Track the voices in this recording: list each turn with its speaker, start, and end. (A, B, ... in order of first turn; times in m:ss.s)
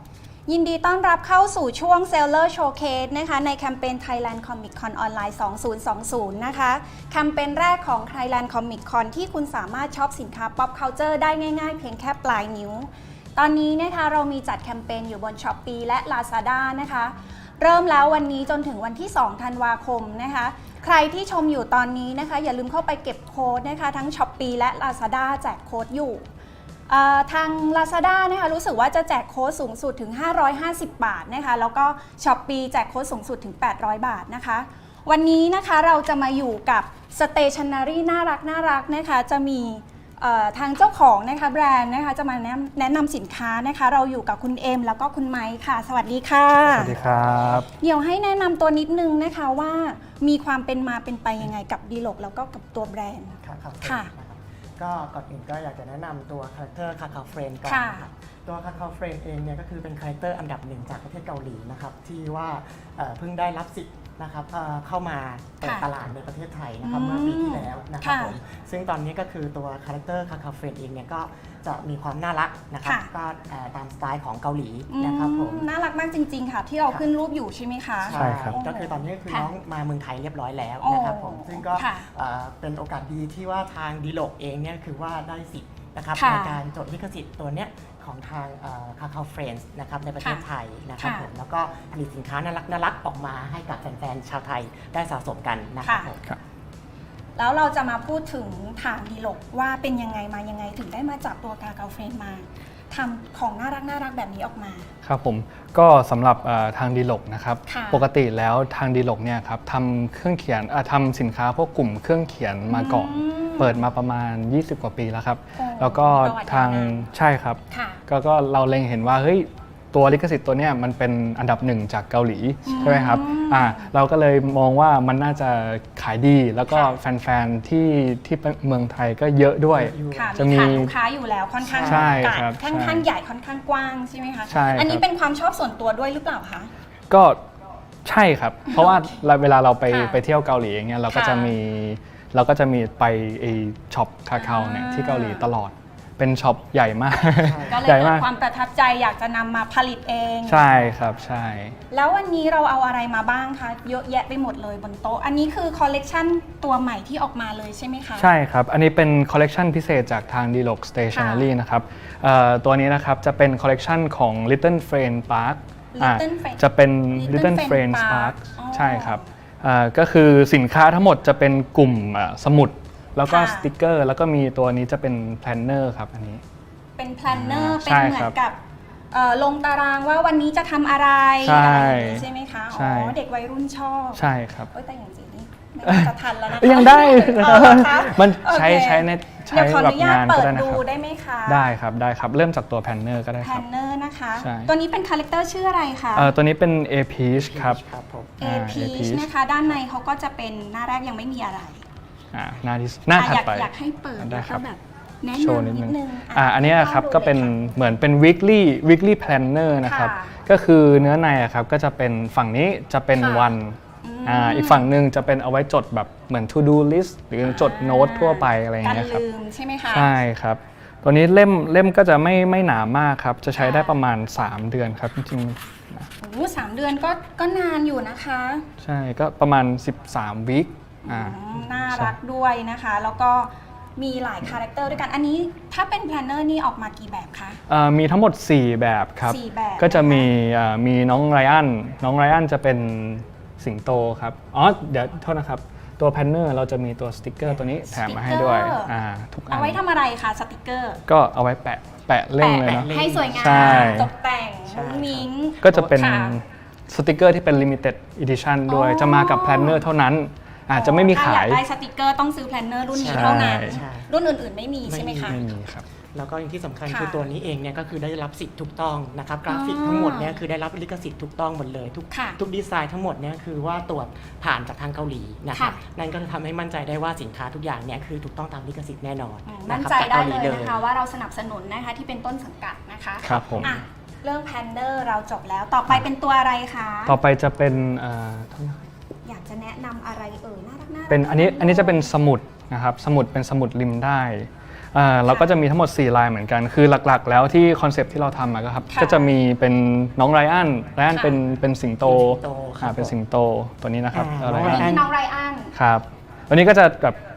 0:00.5-0:26.2 A
0:26.9-0:46.9 A
0:46.7-0:47.6 B
0:46.7-0:47.7 C
0:47.7-0:54.1 A
0:53.4-1:15.7 B
0:57.6-0:58.1 A
1:05.6-1:05.9 A
1:06.8-1:08.3 A
1:14.9-1:19.5 A
1:18.0-1:36.2 B
1:18.1-1:18.6 C
1:20.8-1:22.0 A
1:26.1-1:26.6 A
1:31.0-1:31.2 A
1:35.8-1:36.1 A
1:37.4-1:44.9 A
1:45.0-2:10.9 C
1:47.7-1:48.0 A
1:52.7-1:53.8 A
1:55.6-1:57.0 A
1:57.7-1:58.0 A
2:02.6-2:03.9 A
2:09.7-2:10.4 B
2:10.1-2:16.7 A
2:11.6-2:12.3 B
2:11.8-2:13.0 C
2:14.5-2:15.0 C
2:17.1-2:17.4 C
2:18.0-2:28.3 C
2:18.7-2:19.0 A
2:19.9-2:20.2 A
2:21.1-2:21.5 A
2:24.3-2:25.5 A
2:27.1-2:30.8 A
2:27.4-2:27.8 B
2:30.5-2:31.8 C
2:31.9-2:38.3 A
2:38.2-2:56.4 C
2:41.1-2:41.5 A
2:45.9-2:46.6 A
2:47.1-2:49.2 A
2:53.3-2:53.7 A
2:57.0-2:58.6 A
2:57.3-2:58.3 C
2:59.1-3:11.7 A
3:01.4-3:03.2 C
3:04.1-3:04.7 C
3:05.8-3:10.8 C
3:11.5-3:13.6 C
3:13.4-3:16.3 A
3:14.4-3:14.7 C
3:16.1-3:17.8 C
3:17.3-3:18.4 B
3:18.4-3:21.8 A
3:18.4-3:19.3 C
3:22.3-3:24.6 C
3:23.1-3:27.7 A
3:25.3-3:39.2 C
3:29.8-3:30.4 A
3:33.2-3:34.9 A
3:37.4-3:40.1 A
3:39.9-3:46.1 C
3:43.6-3:44.0 A
3:46.2-3:48.7 A
3:48.8-3:52.2 C
3:51.0-3:57.6 A
3:57.7-4:09.8 C
3:59.2-4:00.3 A
4:07.9-4:08.9 A
4:09.5-4:11.0 A
4:11.1-4:14.1 C
4:12.4-4:16.3 A
4:12.6-4:14.1 B
4:14.7-4:16.0 B
4:15.6-4:21.6 C
4:18.7-4:19.8 A
4:20.7-4:25.4 A
4:22.9-4:24.1 B
4:23.0-4:23.8 C
4:24.8-4:25.4 B
4:25.3-4:25.8 C
4:26.1-4:40.8 B
4:26.9-4:27.2 A
4:29.5-4:30.4 A
4:32.1-4:32.4 A
4:35.5-4:35.8 A
4:39.5-4:47.2 A
4:43.2-4:43.8 C
4:43.2-4:43.8 B
4:47.0-4:48.9 C
4:49.2-4:52.1 A
4:51.1-5:05.0 C
4:58.9-4:59.3 A
5:01.1-5:01.4 A
5:02.0-5:03.1 B
5:04.1-5:05.1 B
5:04.6-5:05.7 A
5:05.7-5:07.2 C